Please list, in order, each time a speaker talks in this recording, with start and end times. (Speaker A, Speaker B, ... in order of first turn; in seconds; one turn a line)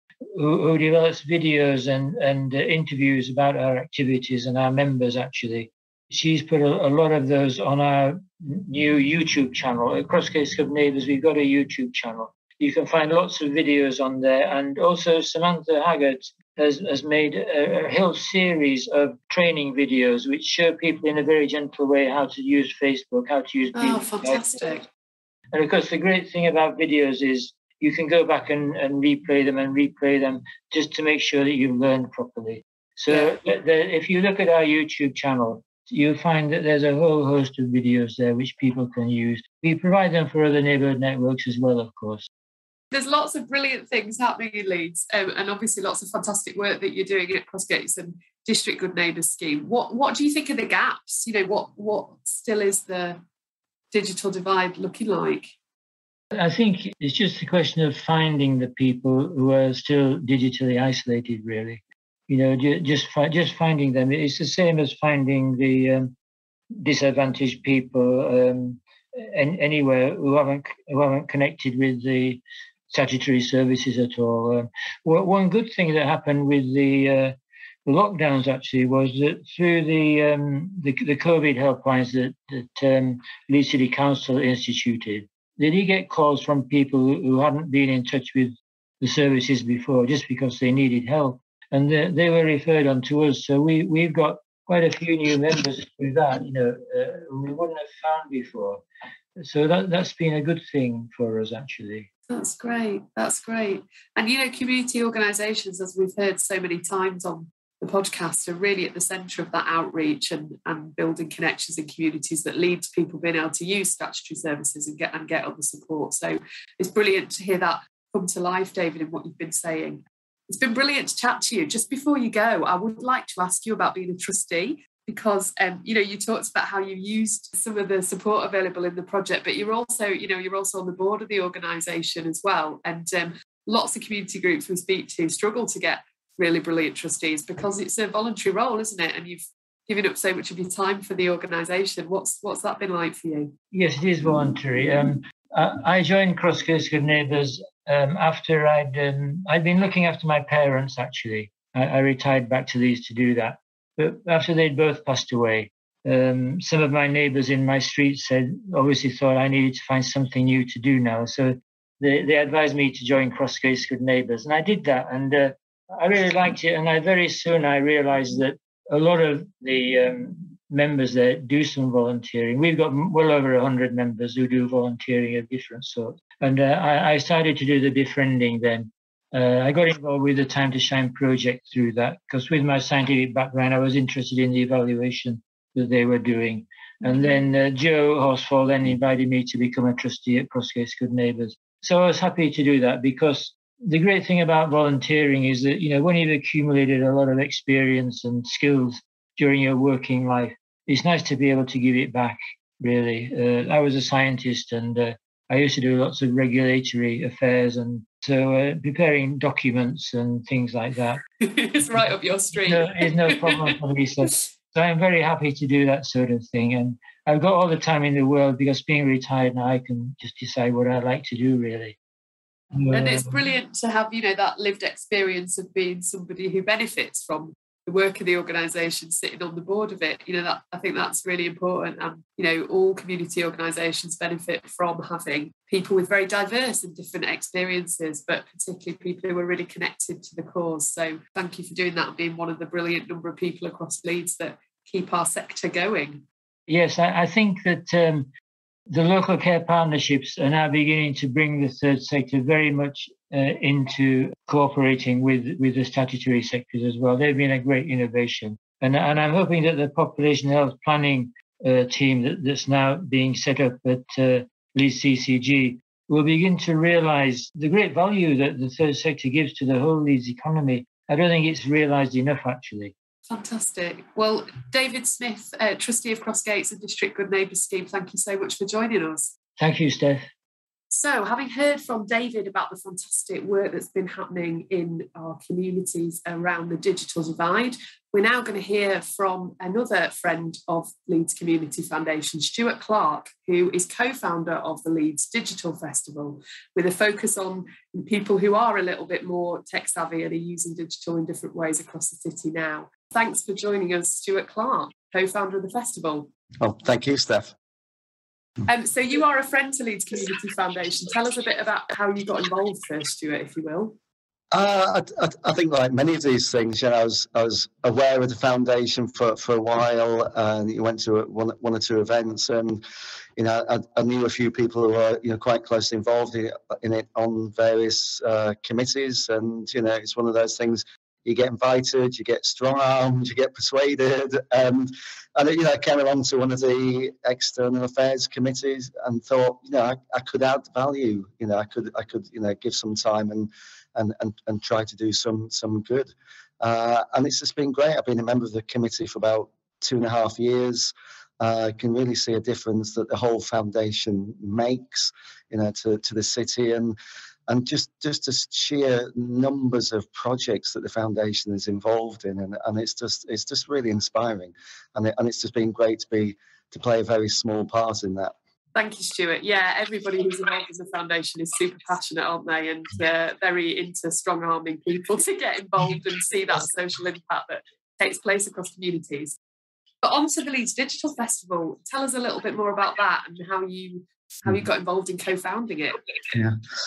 Speaker A: 0.3-24.7
Speaker B: 23.7-24.8
Speaker A: 25.5-42.2
Speaker B: 33.1-33.3
Speaker B: 42.9-53.2
Speaker B: 53.9-55.5
Speaker A: 56.3-66.1
Speaker A: 66.8-98.8
Speaker A: 99.4-102.1
Speaker B: 102.3-143.5
Speaker A: 143.7-211.2
Speaker B: 211.4-213.7
Speaker A: 212.6-221.9
Speaker A: 222.7-223.4
Speaker B: 222.9-246.2
Speaker A: 246.7-248.3
Speaker A: 248.9-272.9
Speaker B: 273.3-279.3
Speaker A: 279.6-280.2
Speaker B: 280.9-306.3
Speaker C: 306.6-307.5
Speaker B: 308.6-314.0
Speaker C: 314.5-322.8
Speaker C: 323.4-356.9
Speaker C: 357.5-368.3
Speaker B: 368.7-379.4
Speaker B: 380.0-386.0